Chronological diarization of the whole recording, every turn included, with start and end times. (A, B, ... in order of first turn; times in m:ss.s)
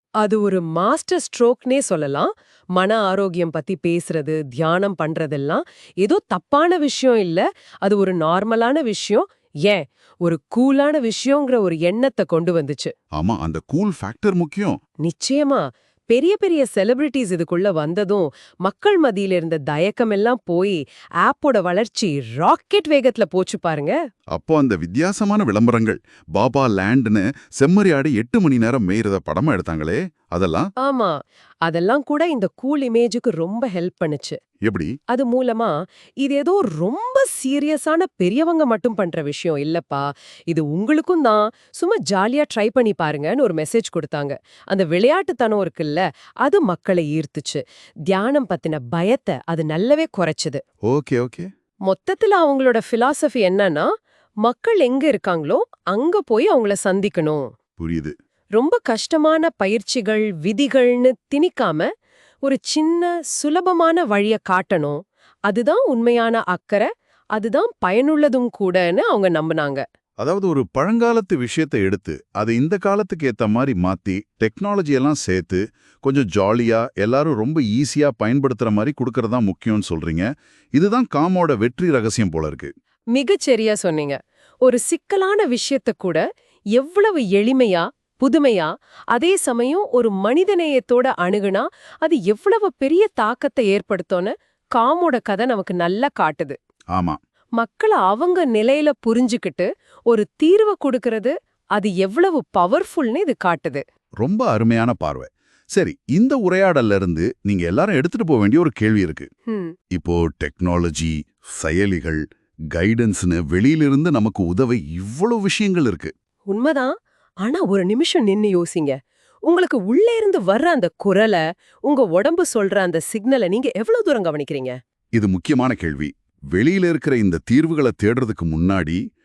0:00.2-0:12.9 A
0:13.2-0:14.8 B
0:15.0-0:24.0 A
0:24.3-0:30.7 B
0:30.8-0:34.4 A
0:34.6-0:34.9 B
0:35.1-0:50.6 A
0:50.9-0:51.5 B
0:51.9-0:53.9 A
0:54.4-0:57.5 A
0:57.8-0:58.1 B
0:58.6-1:01.9 A
1:02.4-1:09.8 A
1:10.2-1:22.7 B
1:23.1-1:26.2 A
1:26.8-1:36.6 A
1:37.6-1:43.8 A
1:44.2-1:49.3 B
1:49.9-1:52.2 B
1:52.7-1:56.1 B
1:56.5-1:56.9 A
1:57.4-2:04.8 A
2:05.1-2:09.0 B